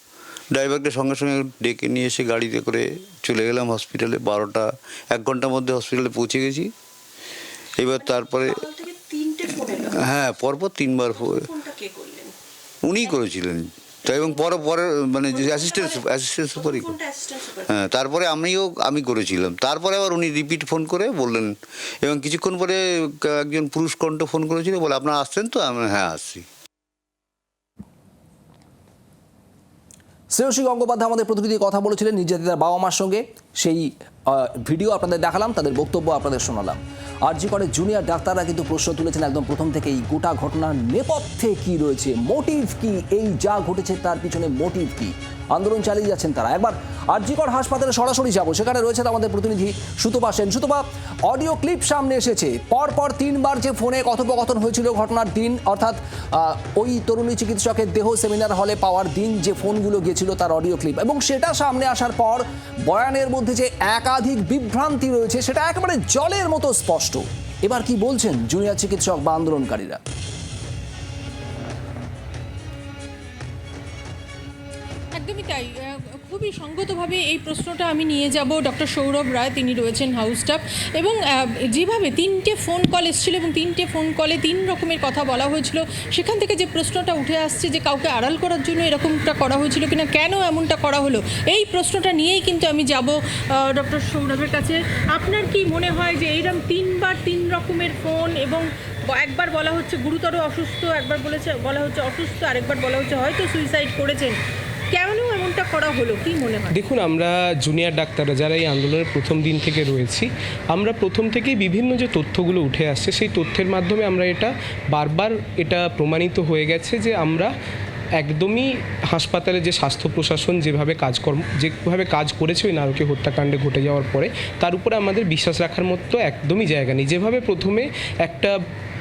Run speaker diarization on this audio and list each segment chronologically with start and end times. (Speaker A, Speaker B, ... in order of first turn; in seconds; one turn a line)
Speaker A: 0.5-6.7
Speaker A: 7.8-8.6
Speaker B: 8.0-9.9
Speaker A: 9.6-11.5
Speaker B: 11.1-12.3
Speaker A: 12.8-16.9
Speaker B: 15.3-17.7
Speaker A: 17.6-26.4
Speaker C: 30.3-70.0
Speaker D: 75.1-104.4
Speaker D: 104.9-106.8
Speaker E: 106.7-117.5
Speaker E: 118.2-128.6